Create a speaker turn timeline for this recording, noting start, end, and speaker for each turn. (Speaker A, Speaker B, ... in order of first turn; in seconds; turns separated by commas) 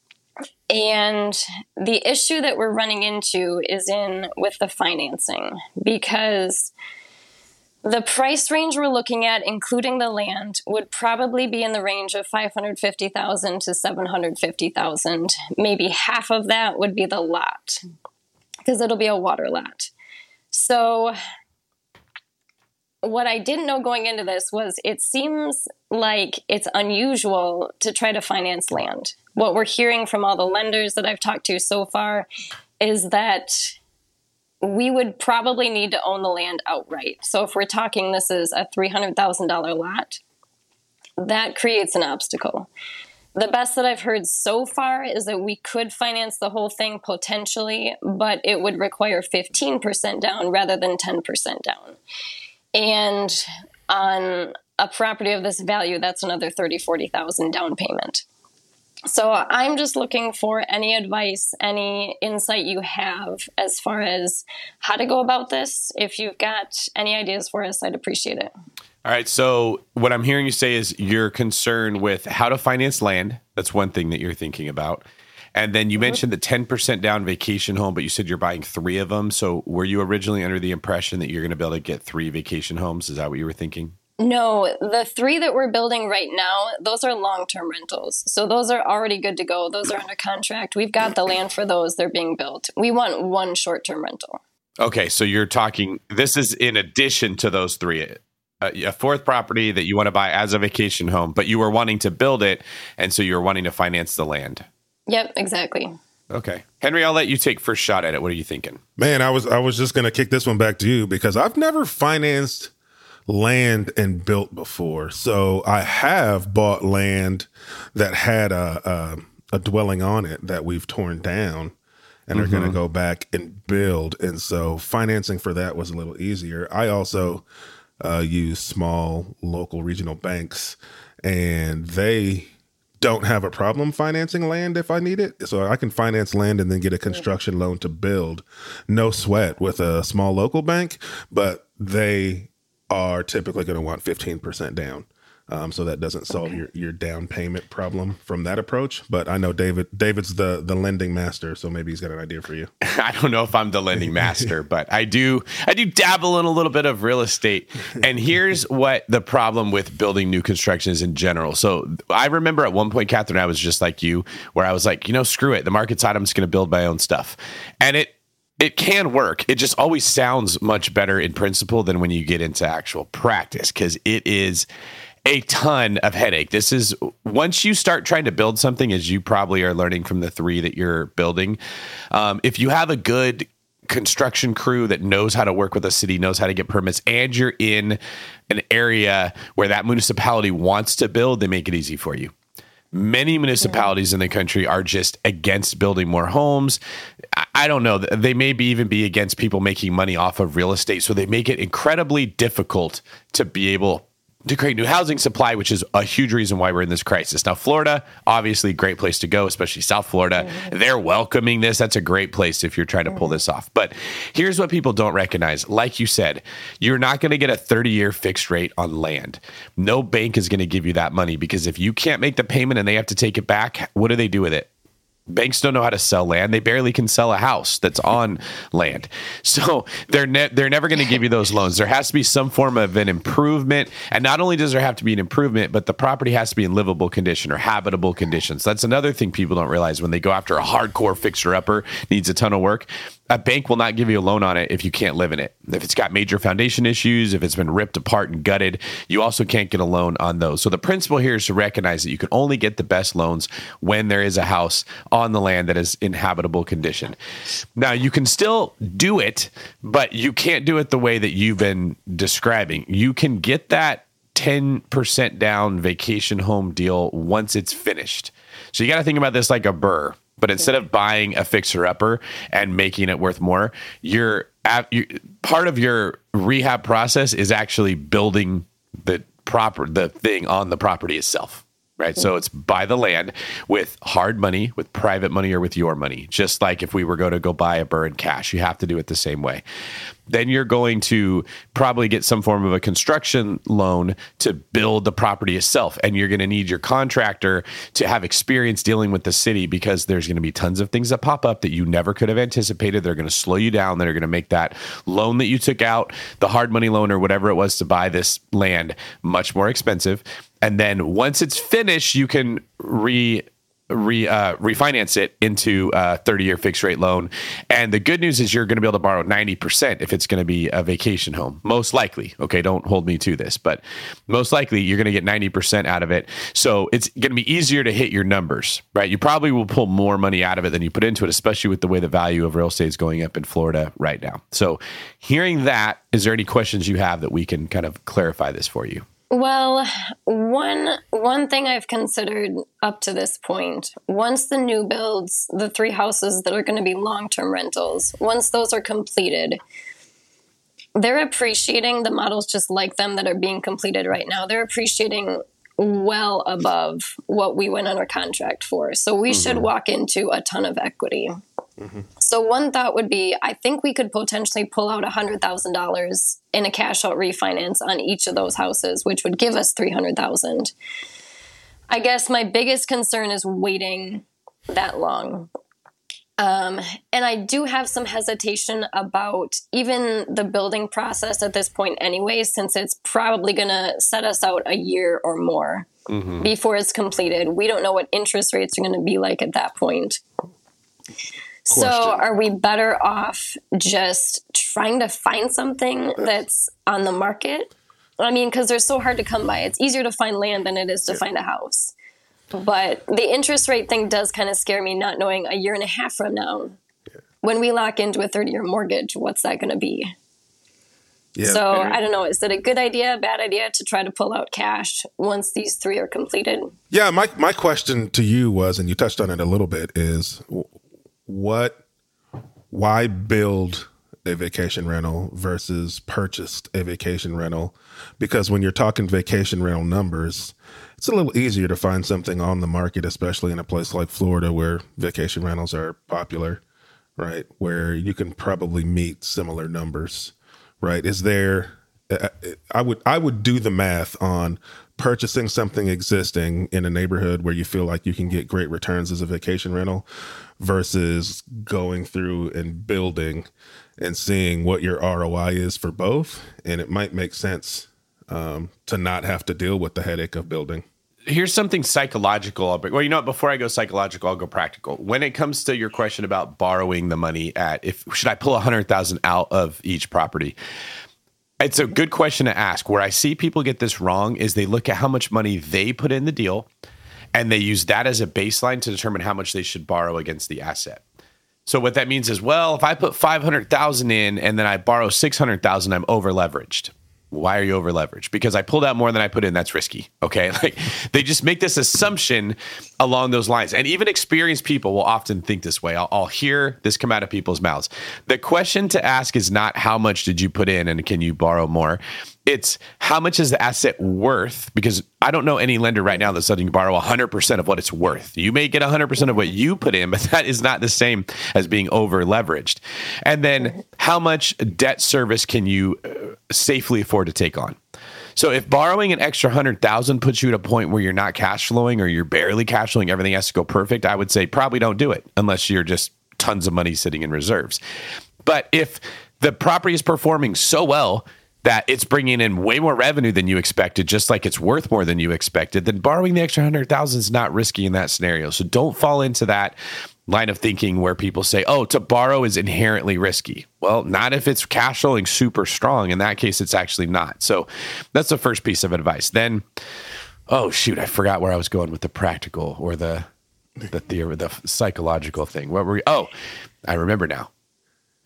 Speaker A: 0.7-6.7, Speaker A: 7.8-17.8, Speaker A: 18.6-19.9, Speaker A: 20.5-21.1, Speaker A: 23.0-32.3, Speaker A: 32.8-33.8, Speaker A: 34.6-40.2, Speaker A: 41.2-42.7, Speaker A: 43.4-52.0, Speaker A: 52.7-58.2, Speaker A: 59.1-68.5, Speaker B: 69.0-84.0, Speaker A: 84.2-94.4, Speaker B: 94.8-104.7, Speaker A: 105.1-106.0, Speaker B: 106.3-108.8, Speaker C: 109.0-112.7, Speaker C: 113.3-121.7, Speaker C: 122.3-127.5, Speaker B: 122.3-122.8, Speaker C: 128.0-132.5, Speaker C: 133.0-152.7, Speaker B: 152.8-174.7, Speaker B: 175.3-181.6, Speaker B: 182.1-192.3, Speaker B: 192.9-196.8, Speaker B: 197.3-224.7, Speaker B: 225.3-257.2, Speaker B: 257.8-289.6, Speaker B: 290.3-339.1, Speaker A: 339.3-349.6, Speaker A: 350.9-361.4, Speaker B: 359.3-359.6, Speaker C: 361.8-362.1, Speaker A: 362.2-370.7, Speaker A: 371.9-375.5, Speaker A: 376.4-390.2, Speaker B: 386.1-386.5, Speaker A: 391.7-401.9, Speaker C: 391.7-392.2, Speaker A: 402.5-406.8, Speaker A: 407.4-410.1, Speaker C: 411.4-412.0, Speaker A: 411.4-416.7, Speaker C: 416.9-420.7, Speaker C: 421.3-421.8, Speaker C: 422.7-436.6, Speaker C: 437.2-450.1, Speaker C: 450.6-460.8, Speaker B: 461.3-470.6, Speaker B: 471.6-476.7, Speaker B: 477.3-481.0, Speaker B: 481.7-517.8, Speaker B: 518.4-527.8, Speaker B: 528.5-539.8, Speaker B: 540.3-549.6, Speaker B: 550.5-553.3, Speaker B: 553.9-556.3, Speaker B: 556.9-557.5